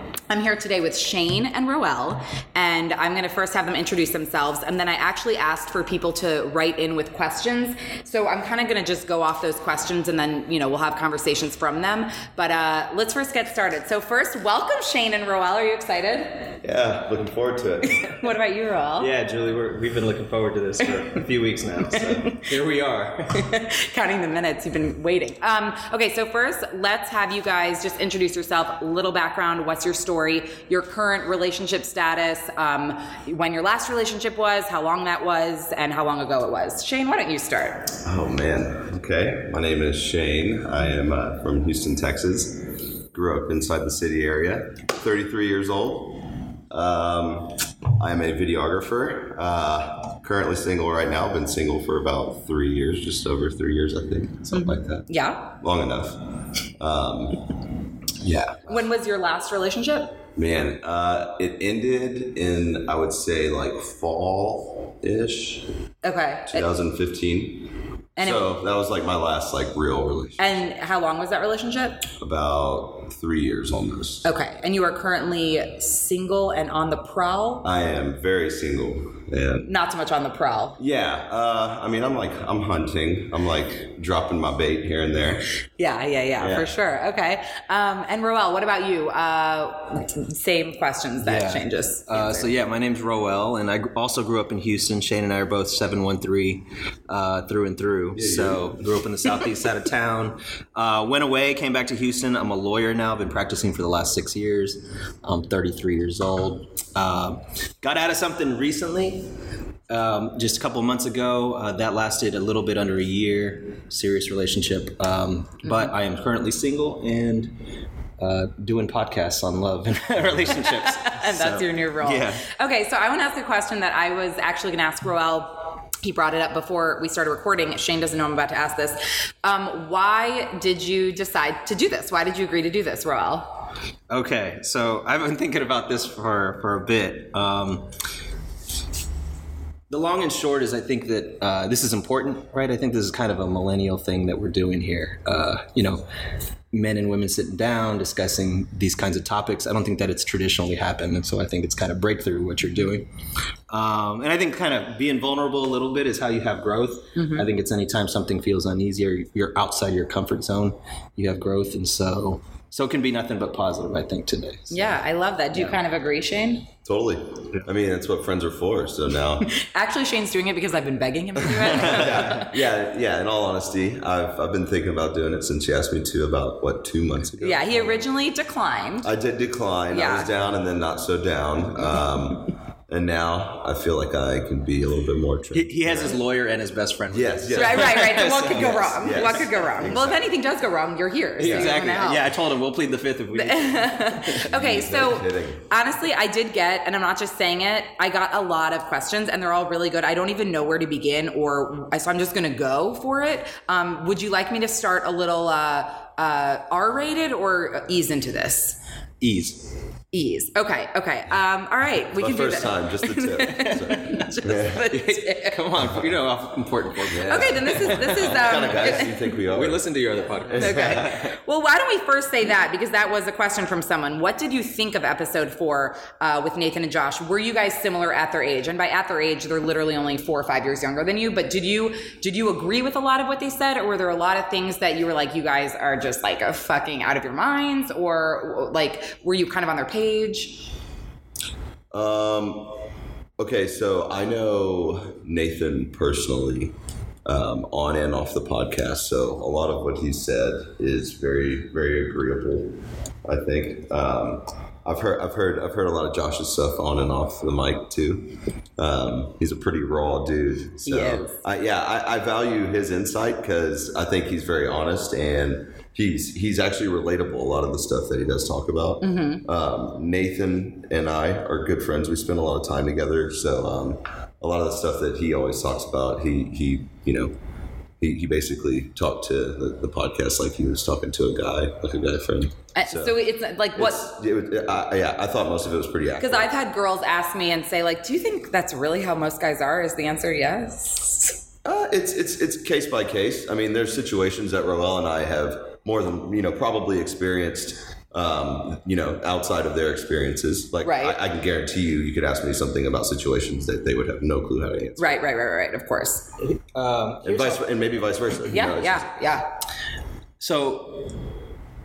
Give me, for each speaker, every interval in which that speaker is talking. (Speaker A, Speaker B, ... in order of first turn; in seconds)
Speaker A: 0.3-16.6, 17.9-19.1, 21.9-22.5, 23.4-37.9, 54.5-55.5, 58.7-60.2, 66.0-66.7, 68.2-68.5, 70.4-72.1, 74.2-77.7, 79.7-80.8, 85.8-92.5, 115.6-115.9, 120.6-133.6, 157.2-157.5, 164.7-166.7, 169.5-172.5, 177.4-179.1, 179.9-180.3, 187.6-192.3, 193.3-208.8, 210.1-215.6, 217.2-219.1, 220.6-240.7, 260.9-261.4, 269.0-269.4, 282.8-284.0, 286.2-291.4, 300.8-301.2, 305.0-306.3, 308.5-309.5
Speaker B: 16.6-18.0, 38.0-57.5, 60.4-65.7, 66.5-70.6, 72.2-74.3, 77.6-79.7, 80.8-85.4, 86.4-86.7, 98.2-98.9, 166.8-169.5, 171.4-178.1, 179.0-186.2, 187.1-190.3, 191.4-191.8, 194.4-195.7, 212.1-214.9, 215.8-216.1, 217.1-219.8, 220.5-221.2, 241.9-242.8, 243.4-246.7, 247.2-277.4, 278.0-283.2, 283.7-286.5, 291.6-305.2, 307.2-309.1
Speaker C: 19.0-23.5, 58.2-58.6, 91.2-109.3, 109.9-117.6, 118.2-122.4, 134.1-137.9, 139.9-146.0, 146.7-153.1, 153.7-164.9, 165.5-165.8, 171.7-172.4, 185.5-189.7, 191.4-194.4, 209.2-209.7, 213.5-221.3, 306.6-307.6, 310.4-311.2